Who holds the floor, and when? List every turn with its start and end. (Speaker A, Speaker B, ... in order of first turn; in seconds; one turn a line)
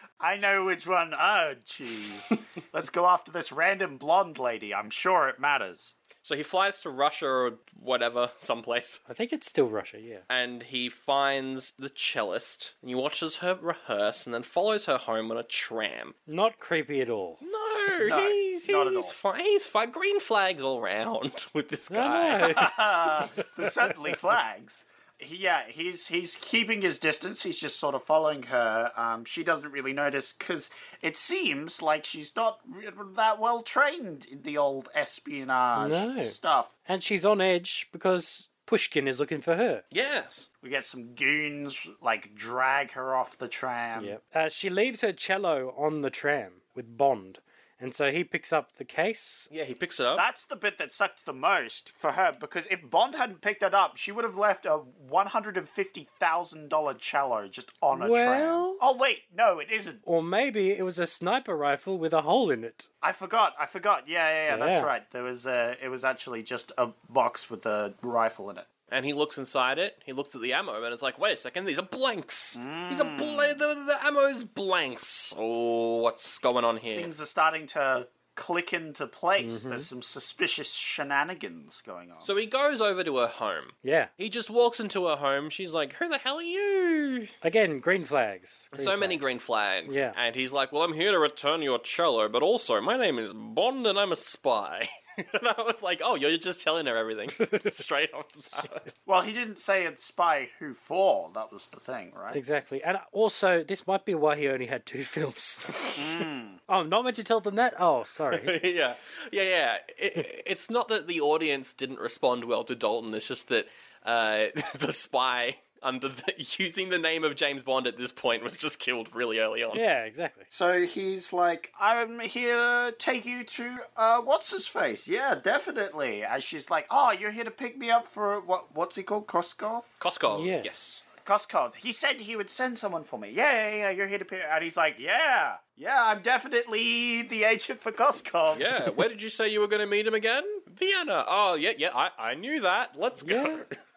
Speaker A: 0.2-5.9
Speaker B: 6.2-9.0
Speaker C: 9.1-10.2
Speaker B: 10.3-16.1
Speaker C: 16.3-17.4
Speaker B: 17.4-22.7
Speaker A: 18.0-19.1
Speaker C: 21.9-22.7
Speaker A: 22.3-36.7
Speaker C: 23.6-23.9
Speaker C: 35.8-36.3
Speaker C: 36.9-39.8
Speaker B: 39.9-40.5
Speaker A: 40.6-44.1
Speaker C: 44.0-49.5
Speaker B: 49.5-50.2
Speaker A: 50.1-60.0
Speaker C: 57.9-58.8
Speaker C: 60.0-62.9
Speaker A: 63.0-68.7
Speaker C: 64.5-64.9
Speaker B: 68.9-77.1
Speaker A: 72.5-73.6
Speaker A: 76.9-82.3
Speaker C: 79.4-79.9
Speaker B: 82.2-87.3
Speaker C: 83.8-84.1
Speaker C: 87.4-89.3
Speaker B: 88.7-98.9
Speaker C: 89.9-90.1
Speaker A: 99.0-102.4
Speaker C: 102.3-105.9
Speaker A: 106.0-106.6
Speaker C: 106.7-108.5
Speaker B: 108.3-119.8
Speaker C: 119.7-120.5
Speaker A: 120.5-129.9
Speaker B: 130.0-131.1
Speaker C: 130.3-130.7
Speaker A: 131.2-138.8
Speaker B: 138.5-143.8
Speaker C: 143.2-143.6